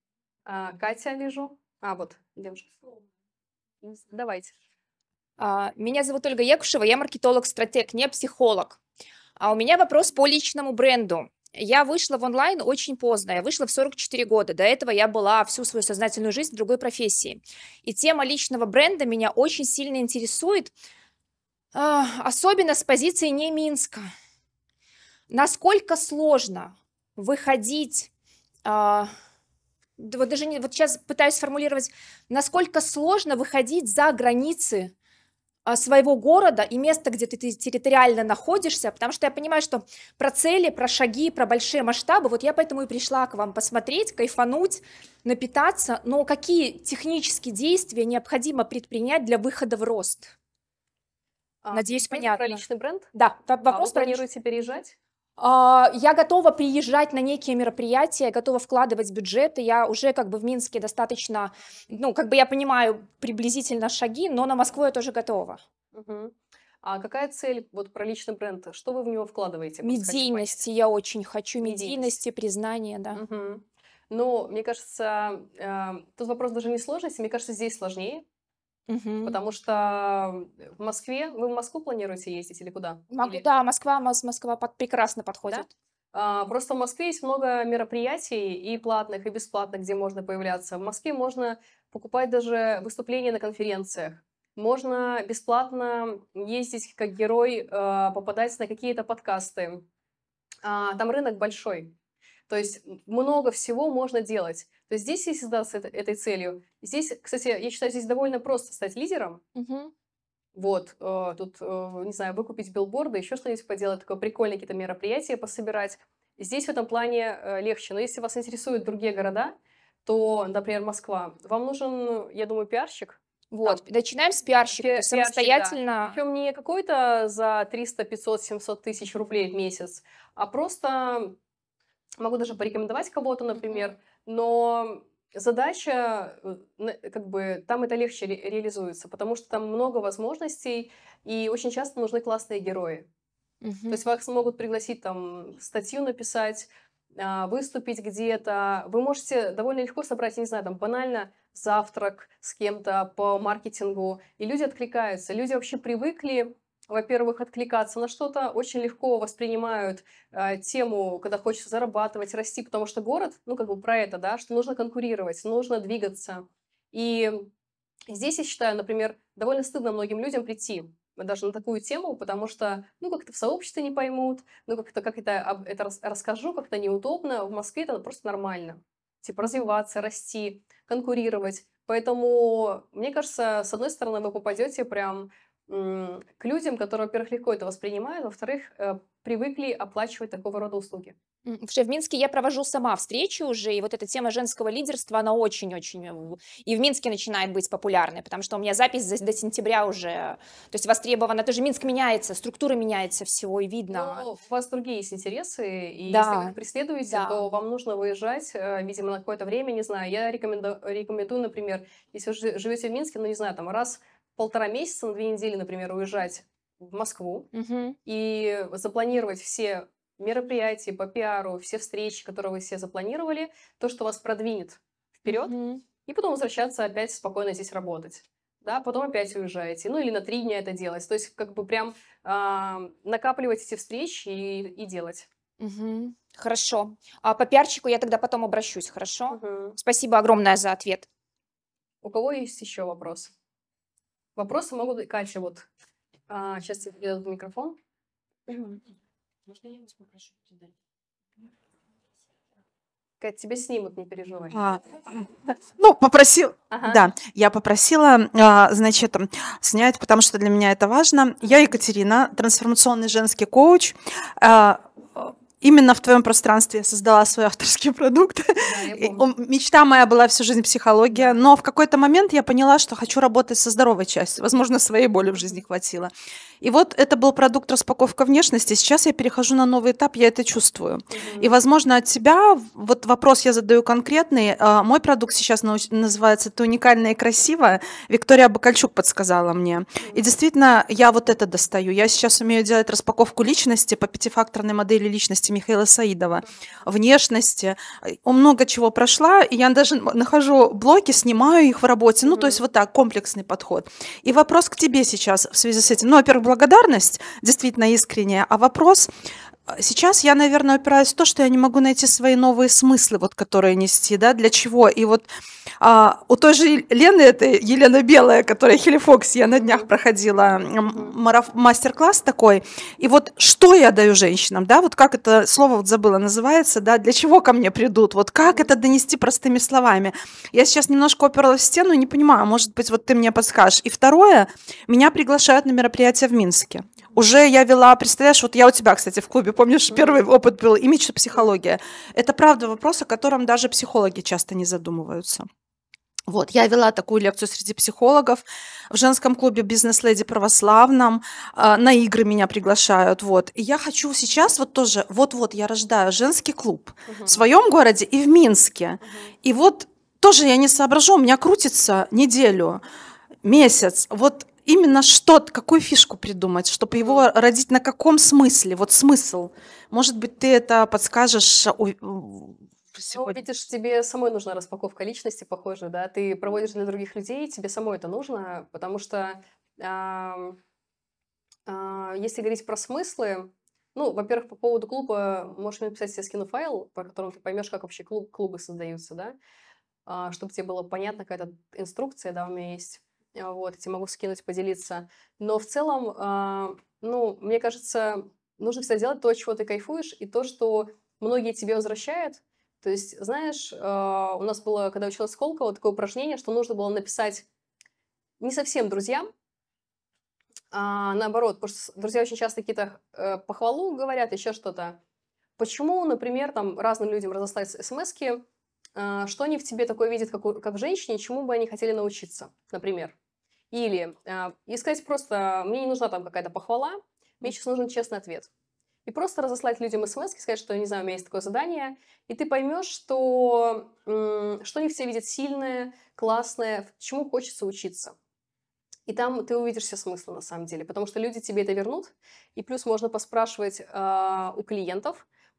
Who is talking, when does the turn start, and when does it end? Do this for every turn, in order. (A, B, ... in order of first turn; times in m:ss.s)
0:00.4-0:02.7 A
0:03.8-0:04.6 A
0:05.4-0:08.8 B
0:09.4-0:20.7 B
0:21.7-0:24.1 B
0:25.3-0:28.1 B
0:28.6-0:29.1 B
0:30.0-0:34.9 B
0:35.6-0:50.3 B
0:51.6-0:53.1 A
0:51.7-0:52.6 B
0:53.1-0:54.2 B
0:53.6-0:54.9 A
0:55.4-1:05.6 B
1:05.9-1:10.6 A
1:09.8-1:13.2 B
1:11.6-1:12.1 A
1:13.1-1:18.2 A
1:18.9-1:19.4 B
1:19.2-1:23.4 A
1:23.1-1:25.7 B
1:25.4-1:39.8 A
1:40.6-1:41.9 A
1:42.5-1:49.4 A
1:49.5-1:49.9 B
1:50.6-2:03.8 A
2:03.5-2:06.2 B
2:04.7-2:11.4 A
2:12.2-2:23.1 A
2:23.6-2:24.0 B
2:23.9-2:47.5 A
2:48.1-3:11.1 A
3:11.4-3:24.3 B
3:23.9-3:37.5 A
3:26.1-3:27.4 B
3:37.5-3:38.0 B
3:38.0-3:55.3 A
3:45.3-3:45.8 B
3:55.6-4:01.0 B
3:59.3-3:59.8 A
4:02.0-4:03.3 A
4:04.4-4:05.6 A
4:06.3-4:07.8 A
4:08.5-4:08.7 A
4:13.2-4:14.6 A
4:14.5-5:09.1 C
4:16.7-4:17.0 A
4:28.6-4:29.2 A
4:31.1-4:31.4 A
4:41.1-4:41.5 A
5:02.3-5:02.6 A
5:09.7-5:15.3 C
5:15.8-5:45.5 C
5:19.6-5:19.9 A
5:20.8-5:21.1 A
5:28.4-5:28.7 A
5:39.9-5:40.2 A
5:46.3-6:02.8 C
5:57.0-5:57.4 A
5:59.0-5:59.3 A
6:03.4-6:13.4 C
6:07.0-6:07.3 A
6:13.1-6:20.6 A
6:21.7-6:29.4 A
6:30.0-6:47.4 A
6:48.4-6:49.3 A
6:50.7-6:55.0 A
6:55.6-6:58.4 A
6:59.0-7:03.1 A
7:03.7-7:08.5 A
7:09.0-7:18.1 A
7:19.1-7:25.2 A